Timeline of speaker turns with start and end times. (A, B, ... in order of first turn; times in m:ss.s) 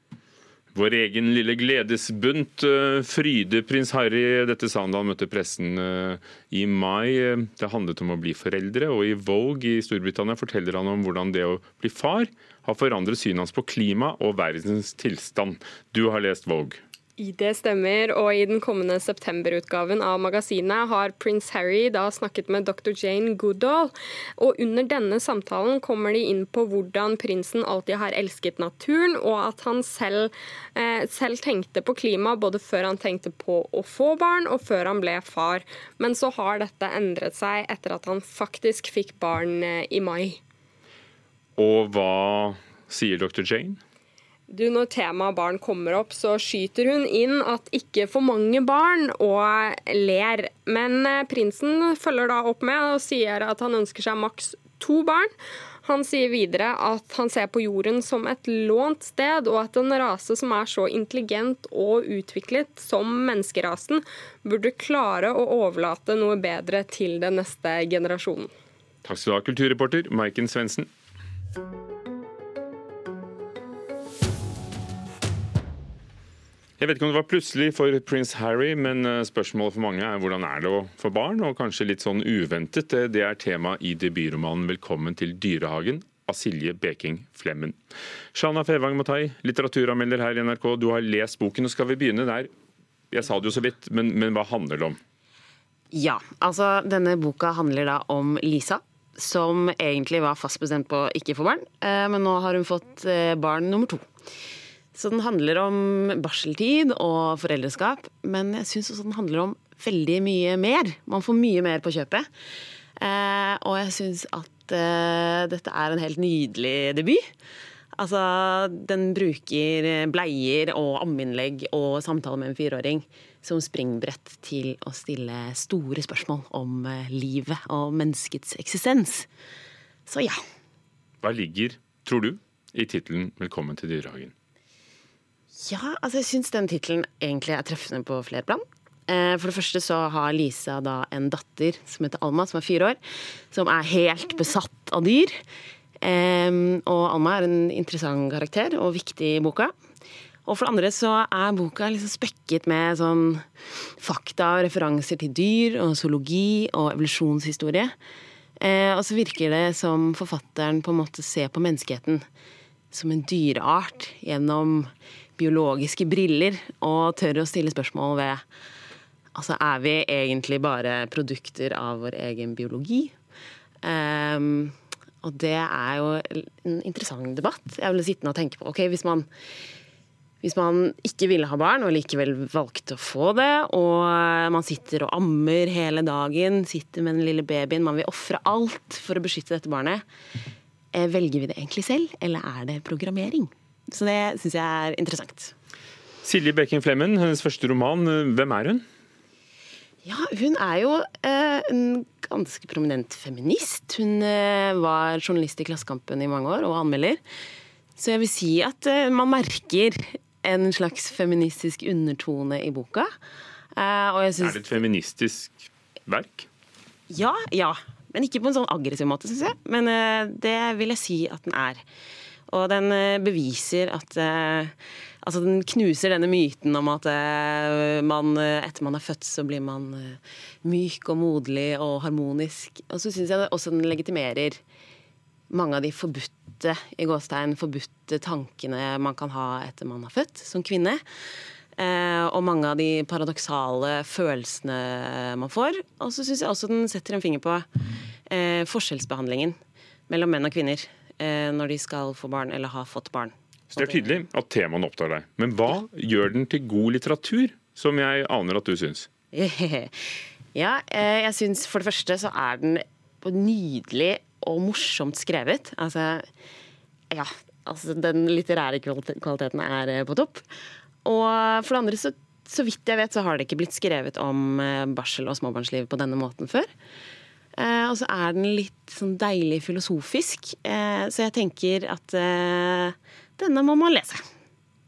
0:00.7-0:16.8 A
0:17.2-0:40.4 B
0:41.6-0:43.8 A
0:44.5-0:55.3 B
0:55.8-1:08.5 B
1:09.0-1:10.9 A
1:16.8-1:27.8 A
1:28.3-1:32.5 A
1:33.1-1:35.0 A
1:35.9-1:44.0 C
1:44.9-1:52.3 C
1:53.0-1:57.2 C
1:58.0-2:09.3 C
2:10.1-2:10.4 C
2:11.2-2:14.3 A
2:15.5-2:23.0 C
2:23.5-2:25.4 C
2:26.0-2:29.7 C
2:30.4-2:37.9 C
2:38.6-2:42.2 C
2:42.9-2:48.4 C
2:49.3-2:53.1 C
2:53.8-2:59.3 C
3:00.4-3:10.0 C
3:10.9-3:15.5 C
3:16.2-3:18.8 A
3:20.0-3:27.2 C
3:28.0-3:33.1 C
3:33.8-3:34.7 C
3:34.4-3:36.5 A
3:37.1-3:41.8 C
3:42.5-3:54.6 C
3:55.5-4:01.0 C
4:01.8-4:07.7 C
4:08.3-4:09.6 C
4:10.1-4:14.2 C
4:13.7-4:19.1 A
4:19.3-4:19.9 C
4:20.5-4:26.2 C
4:27.1-4:30.4 C
4:31.0-4:36.7 C
4:37.6-4:44.2 C